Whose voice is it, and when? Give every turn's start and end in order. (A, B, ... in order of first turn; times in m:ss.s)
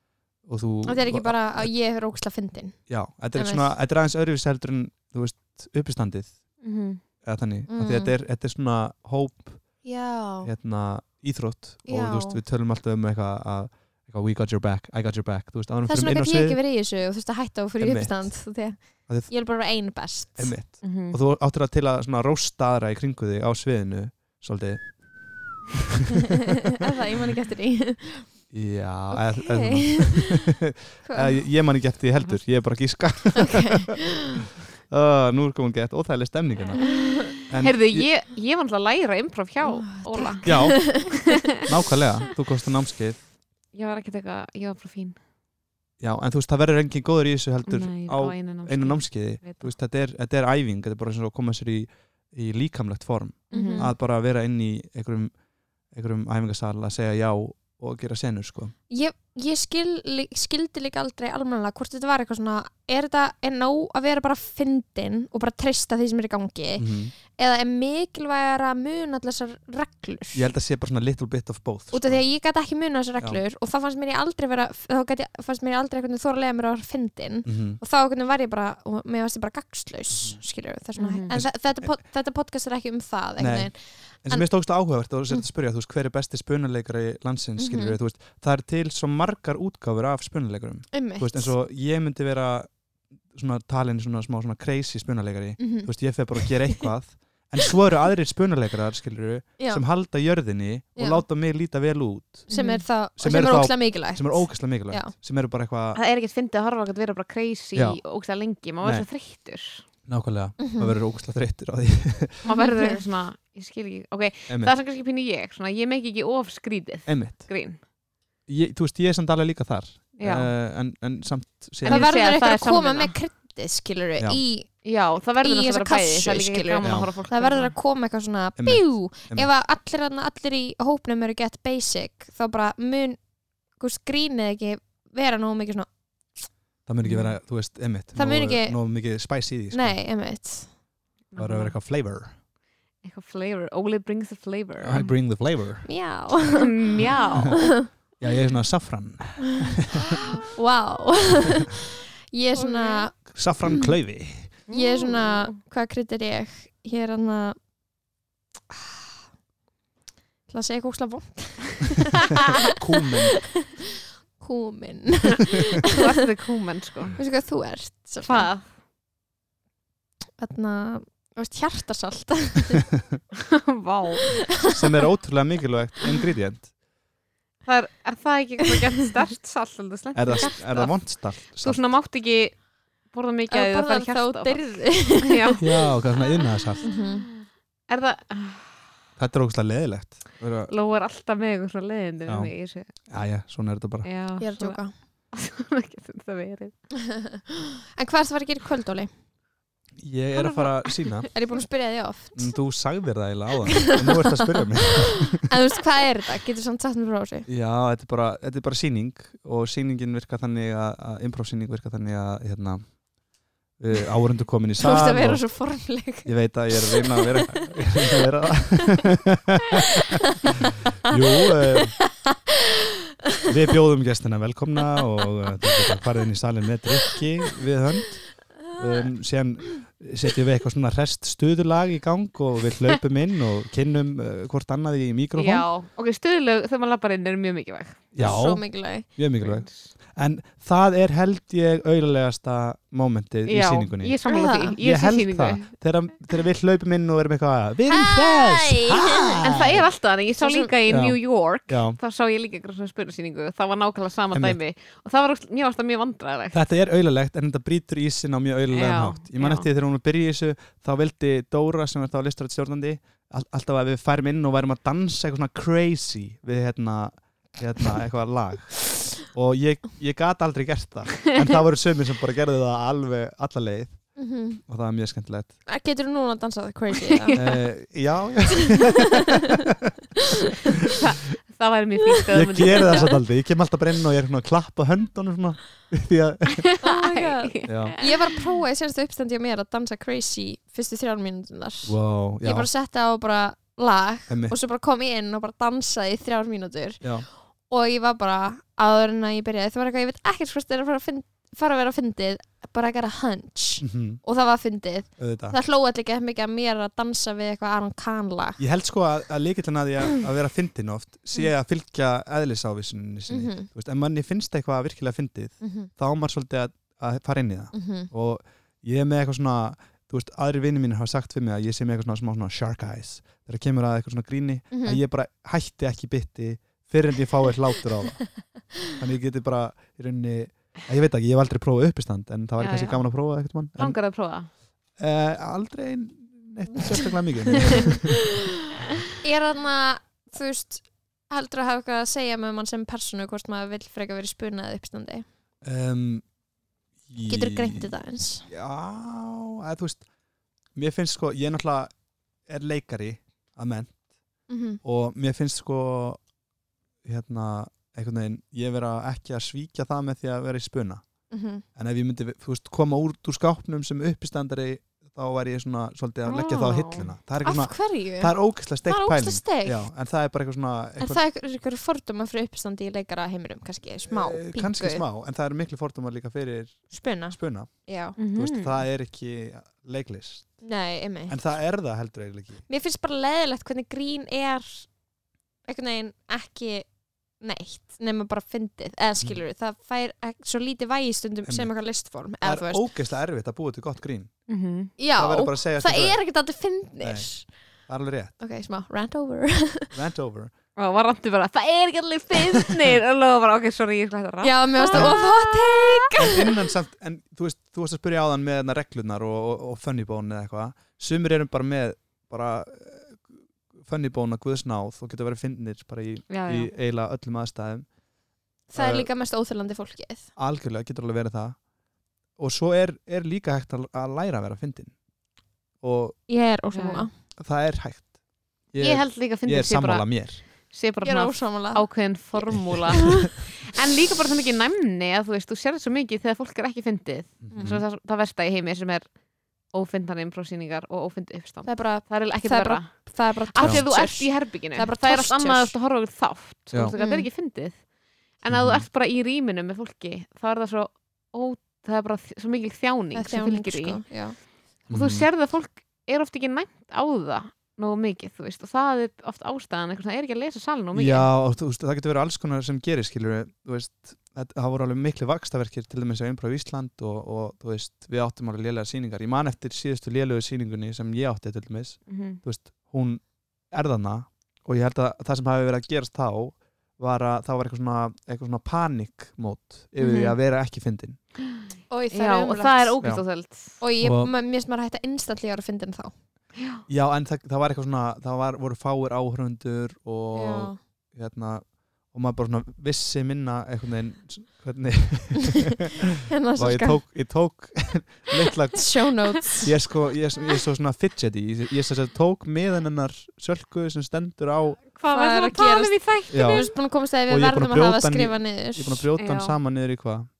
0:00.4-0:01.7 A
0:00.8-0:03.7 B
0:02.9-0:06.4 A
0:06.6-0:07.0 C
0:07.2-0:09.9 A
0:07.7-0:08.1 B
0:09.8-0:10.5 B
0:10.4-0:16.6 A
0:11.8-0:12.4 B
0:15.9-0:20.6 B
0:17.8-0:19.3 A
0:20.4-0:25.6 A
0:20.8-0:21.2 C
0:26.8-0:28.3 B
0:28.5-0:34.0 A
0:29.1-0:30.4 B
0:31.0-0:31.4 B
0:33.4-0:33.9 B
0:34.9-0:38.1 A
0:37.6-0:41.4 C
0:39.6-0:41.3 B
0:40.4-0:43.2 A
0:43.7-0:45.2 C
0:46.0-0:55.3 A
0:47.6-0:49.7 C
0:53.5-0:53.9 B
0:53.5-0:53.9 C
0:55.9-0:58.7 A
0:58.9-1:10.4 B
1:06.8-1:07.1 A
1:10.3-1:12.2 A
1:11.9-1:24.7 B
1:17.4-1:17.8 A
1:20.1-1:20.4 A
1:20.9-1:21.4 C
1:21.3-1:21.9 A
1:23.4-1:32.7 A
1:27.6-1:28.0 B
1:30.9-1:31.5 B
1:33.3-1:42.5 A
1:35.6-1:35.9 B
1:39.6-1:39.8 B
1:41.0-1:41.2 B
1:42.5-1:42.8 C
1:42.5-1:45.1 B
1:43.1-1:46.0 A
1:45.9-1:49.8 C
1:47.7-1:48.0 A
1:48.8-1:49.1 A
1:50.1-1:52.4 A
1:50.6-1:50.9 B
1:52.4-1:57.8 C
1:52.5-1:53.0 B
1:54.5-1:54.7 A
1:57.0-1:57.5 A
1:58.5-2:02.1 A
2:00.2-2:00.5 C
2:01.8-2:03.1 C
2:01.8-2:04.8 B
2:04.8-2:07.7 C
2:05.4-2:13.2 B
2:06.8-2:07.1 A
2:08.6-2:09.5 A
2:13.7-2:15.9 B
2:16.8-2:20.0 A
2:17.0-2:17.3 C
2:18.1-2:18.8 B
2:19.7-2:20.7 B
2:21.3-2:21.7 C
2:21.4-2:22.3 A
2:23.0-2:25.1 C
2:24.8-2:25.9 A
2:25.8-2:26.7 B
2:26.6-2:27.7 C
2:27.5-2:27.9 B
2:28.2-2:30.2 A
2:30.5-2:31.8 B
2:32.3-2:33.9 B
2:32.6-2:33.1 C
2:33.3-2:34.5 A
2:34.7-2:35.6 C
2:34.7-2:37.6 B
2:40.5-2:42.2 B
2:42.7-2:43.5 A
2:44.4-2:45.6 B
2:45.9-2:47.2 C
2:47.2-2:48.5 B
2:48.2-2:48.6 C
2:50.4-2:52.9 B
2:53.4-2:54.4 C
2:54.7-2:56.7 A
2:57.6-3:05.9 C
3:00.1-3:01.8 A
3:03.5-3:05.5 B
3:05.6-3:06.8 A
3:06.8-3:07.3 B
3:07.9-3:08.8 C
3:09.2-3:10.7 A
3:10.7-3:12.9 C
3:12.2-3:12.5 A
3:13.0-3:14.1 A
3:14.0-3:16.8 C
3:14.4-3:14.9 B
3:17.1-3:19.1 B
3:20.0-3:21.3 A
3:20.4-3:20.6 B
3:21.2-3:22.6 B
3:22.3-3:25.5 A
3:23.9-3:24.2 B
3:25.3-3:27.5 B
3:27.5-3:33.0 A
3:33.8-3:39.6 A
3:34.8-3:37.8 B
3:41.0-3:42.0 A
3:42.0-3:42.3 B
3:43.5-3:55.7 A
3:55.4-3:58.2 C
3:58.1-4:04.2 A
3:58.2-3:59.1 B
3:59.4-3:59.9 C
4:03.5-4:05.7 C
4:04.3-4:04.8 B
4:04.8-4:09.9 A
4:07.9-4:09.4 B
4:09.4-4:16.6 C
4:10.4-4:10.7 B
4:10.9-4:12.0 A
4:14.3-4:14.6 A
4:16.5-4:35.6 A
4:18.7-4:19.7 C
4:34.2-4:34.6 B
4:35.7-4:37.6 B
4:37.4-4:39.3 A
4:41.0-4:43.1 C
4:42.3-4:46.6 A
4:46.6-4:48.3 C
4:46.8-4:57.2 B
4:47.6-4:48.0 A
4:51.8-4:52.7 A
4:54.3-4:54.6 A
4:57.0-4:57.3 A
4:57.7-5:08.6 B
5:03.8-5:04.2 A
5:05.2-5:05.6 A
5:08.6-5:34.0 A
5:13.3-5:13.7 B
5:15.6-5:15.9 B
5:17.7-5:18.1 B
5:24.7-5:25.0 B
5:32.6-5:33.1 C
5:33.7-5:34.5 C
5:35.0-5:38.2 A
5:39.2-5:45.3 B
5:45.6-5:46.2 A
5:47.1-5:47.9 A
5:47.3-5:48.5 B
5:48.5-5:50.1 A
5:50.7-5:51.9 A
5:52.4-5:54.0 A
5:54.5-5:54.8 B
5:54.8-5:56.2 A
5:57.0-6:01.0 A
6:01.3-6:01.6 B
6:01.7-6:11.2 A
6:06.3-6:07.1 C
6:07.4-6:09.8 B
6:11.0-6:15.0 B
6:14.1-6:20.6 A
6:16.9-6:18.2 B
6:18.2-6:18.8 C
6:20.6-6:21.4 B
6:21.3-6:22.6 A
6:22.7-6:24.9 B
6:25.7-6:26.9 B
6:27.4-6:32.8 B
6:31.4-6:31.7 A
6:32.4-6:34.3 A
6:34.5-6:34.9 C
6:35.0-6:37.5 B
6:35.2-6:36.2 A
6:37.0-6:37.3 A
6:37.8-6:38.3 A
6:38.4-6:39.9 B
6:39.9-6:40.5 A
6:40.8-6:45.9 C
6:44.4-6:46.4 B
6:44.9-6:45.2 A
6:46.2-6:57.8 A
6:56.3-6:56.7 C
6:58.7-7:00.3 B
6:58.7-6:59.1 A
7:00.4-7:01.6 A
7:02.4-7:04.9 A
7:05.8-7:06.2 A
7:06.3-7:07.1 B
7:06.7-7:07.1 C
7:07.4-7:08.1 A
7:08.7-7:10.4 A
7:08.8-7:19.1 C
7:11.0-7:11.9 B
7:17.4-7:17.8 A
7:19.7-7:27.8 C
7:21.6-7:25.7 B
7:27.0-7:27.3 B
7:28.4-7:34.0 C
7:28.5-7:28.8 A
7:33.1-7:34.4 B
7:34.9-7:35.3 A
7:34.9-7:41.3 C
7:40.9-8:01.2 A
7:52.1-7:52.4 C
8:00.0-8:00.4 C
8:01.9-8:02.9 B
8:02.1-8:03.8 C
8:03.8-8:06.1 B
8:04.0-8:04.3 A
8:06.9-8:24.8 A
8:10.3-8:10.8 B
8:16.3-8:17.0 B
8:18.8-8:19.7 B
8:25.0-8:26.7 C
8:25.1-8:29.1 B
8:26.3-8:30.3 A
8:29.2-8:29.5 C